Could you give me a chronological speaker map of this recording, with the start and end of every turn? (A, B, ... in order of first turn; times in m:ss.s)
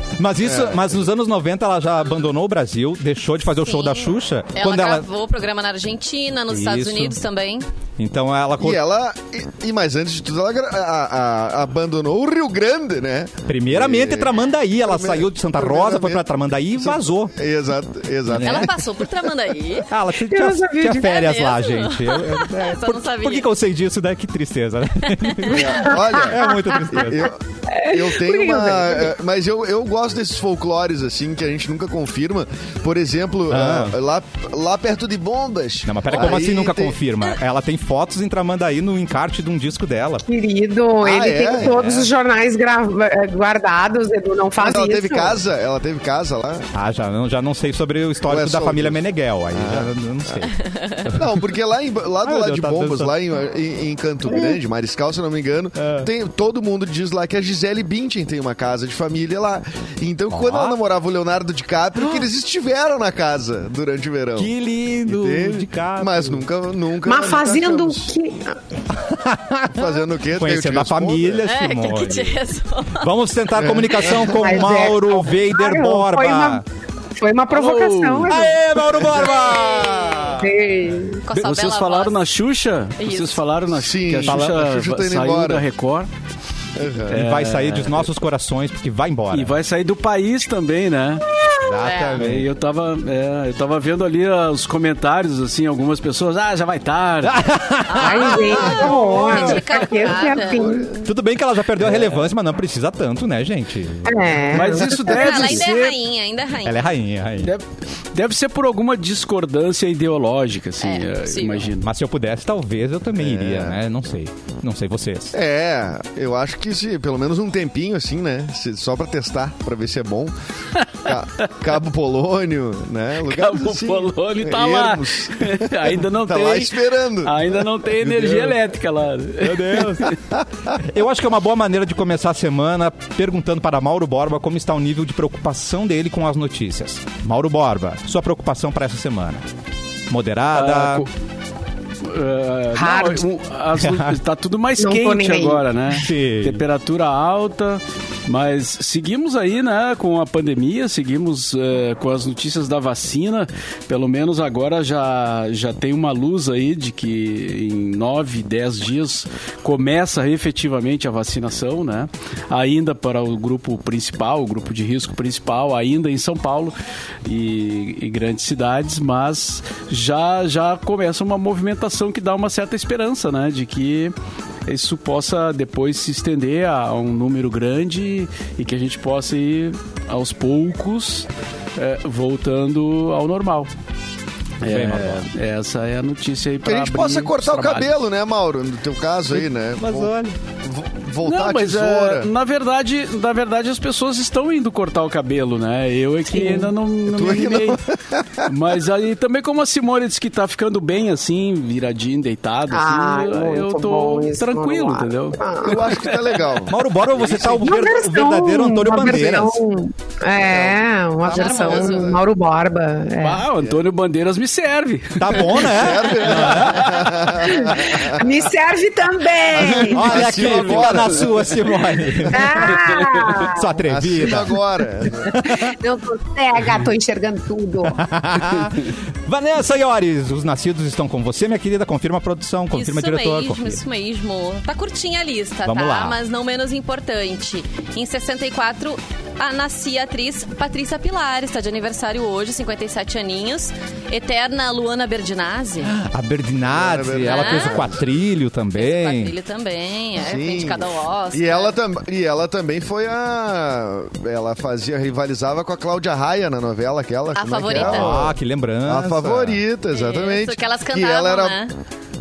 0:00.2-0:05.0 A
0:00.4-0:01.0 B
0:03.6-0:07.6 C
0:06.5-0:07.2 A
0:08.0-0:08.8 A
0:08.6-0:14.3 B
0:13.5-0:17.3 A
0:14.8-0:18.7 B
0:18.3-0:18.7 A
0:18.4-0:19.9 C
0:19.9-0:27.3 A
0:20.3-0:21.2 D
0:21.0-0:23.5 C
0:25.2-0:25.6 C
0:25.5-0:37.0 B
0:25.7-0:26.9 D
0:27.7-0:29.1 D
0:33.5-0:34.0 A
0:35.8-0:40.2 A
0:40.3-0:45.4 D
0:41.0-0:41.8 B
0:41.6-0:42.1 A
0:44.6-0:46.7 B
0:46.7-0:51.4 A
0:48.3-0:49.0 B
0:49.5-0:50.4 B
0:50.5-0:51.0 C
0:51.1-1:04.5 B
0:52.2-0:53.1 A
0:55.8-0:56.1 A
1:00.3-1:00.8 A
1:04.4-1:06.4 A
1:05.1-1:08.1 B
1:07.0-1:08.6 D
1:09.0-1:12.4 A
1:09.7-1:11.5 B
1:11.4-1:13.1 C
1:13.0-1:16.6 A
1:13.6-1:14.5 B
1:14.4-1:16.6 D
1:17.1-1:18.6 D
1:17.5-1:18.3 E
1:18.3-1:20.5 A
1:19.1-1:20.4 C
1:20.4-1:21.2 D
1:21.2-1:22.2 C
1:21.3-1:26.1 E
1:23.0-1:23.4 C
1:23.7-1:25.6 B
1:24.2-1:24.6 A
1:26.8-1:27.2 B
1:27.1-1:29.5 A
1:27.1-1:28.1 E
1:29.3-1:31.2 E
1:31.5-1:32.5 A
1:31.8-1:32.2 C
1:32.2-1:37.4 E
1:37.2-1:39.6 A
1:37.8-1:41.0 C
1:38.0-1:41.0 D
1:40.4-1:40.9 B
1:41.0-1:44.7 A
1:44.1-1:45.6 D
1:44.5-1:45.9 E
1:45.0-1:46.8 C
1:46.6-1:47.5 A
1:47.4-1:51.9 E
1:50.8-1:51.7 C
1:51.8-1:55.3 A
1:53.2-1:53.8 B
1:55.3-2:00.3 B
2:00.8-2:01.5 E
2:01.0-2:07.5 B
2:03.2-2:10.2 E
2:08.0-2:08.6 A
2:09.4-2:10.2 A
2:10.8-2:19.4 A
2:20.1-2:21.0 A
2:20.5-2:21.1 E
2:22.0-2:54.1 E
2:22.7-2:23.2 D
2:23.8-2:24.2 A
2:24.8-2:25.6 D
2:25.9-2:26.6 A
2:54.7-3:03.7 E
3:04.6-3:08.0 E
3:04.6-3:05.2 A
3:06.6-3:12.3 B
3:09.8-3:10.4 A
3:11.2-3:17.8 E
3:16.3-3:16.7 D
3:17.1-3:18.5 B
3:18.4-3:27.6 E
3:22.7-3:25.8 D
3:25.6-3:26.8 B
3:26.7-3:29.6 A
3:27.6-3:33.4 D
3:30.4-3:32.2 B
3:31.3-3:32.2 C
3:33.2-3:36.8 E
3:35.2-3:36.9 A
3:35.6-3:38.3 B
3:37.4-3:40.3 D
3:39.5-3:41.6 B
3:39.9-3:44.6 A
3:40.6-3:41.0 E
3:42.3-3:42.6 B
3:42.3-3:43.7 D
3:43.8-3:45.3 B
3:45.2-3:45.7 A
3:45.6-3:48.0 D
3:47.9-3:53.8 A
3:52.7-4:05.9 C
3:55.6-3:56.2 A
4:05.8-4:09.3 A
4:06.7-4:08.1 B
4:07.2-4:07.8 C
4:08.7-4:11.8 C
4:10.2-4:21.6 B
4:17.4-4:18.1 C
4:17.7-4:19.6 A
4:19.9-4:21.7 C